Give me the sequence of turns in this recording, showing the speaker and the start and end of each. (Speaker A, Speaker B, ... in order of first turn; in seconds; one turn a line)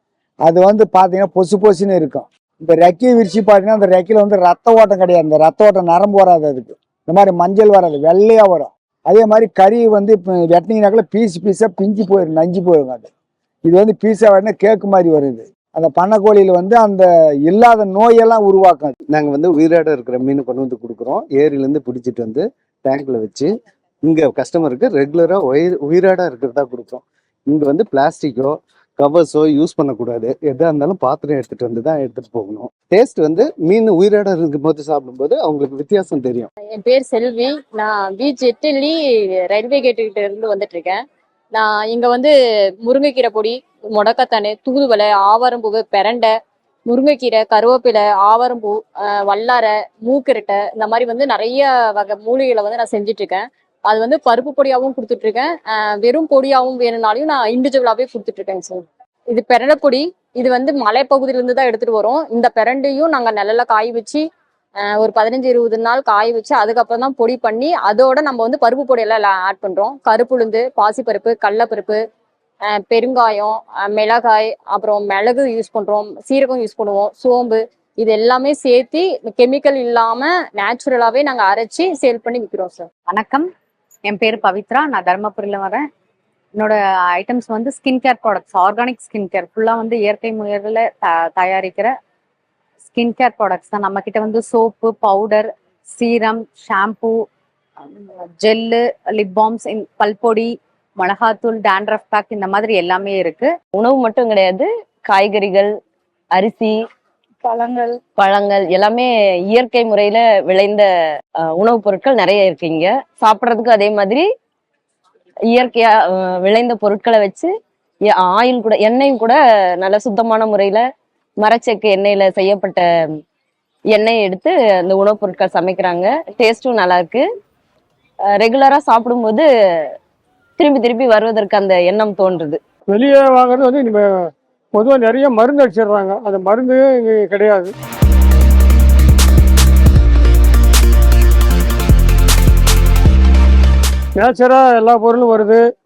Speaker A: 0.4-13.1
Speaker A: 13.7-18.9
Speaker B: 19.1-23.5
Speaker B: 24.0-36.5
Speaker C: 36.7-39.0
Speaker C: 39.5-41.0
Speaker C: 41.5-42.3
Speaker C: 42.8-46.3
Speaker C: 46.9-64.2
Speaker C: 64.8-72.0
Speaker C: 72.7-82.9
Speaker D: 83.1-83.5
Speaker D: 84.0-85.9
Speaker D: 86.5-91.9
Speaker D: 92.9-97.2
Speaker D: 97.8-103.5
Speaker E: 103.7-105.7
Speaker E: 106.3-106.7
Speaker E: 108.2-110.9
Speaker E: 111.4-114.2
Speaker E: 115.5-117.5
Speaker E: 118.0-120.8
Speaker E: 121.4-123.0
Speaker E: 123.9-127.2
Speaker E: 128.3-129.5
Speaker E: 130.6-132.6
Speaker F: 132.9-134.1
Speaker F: 134.7-137.7
Speaker F: 144.2-145.6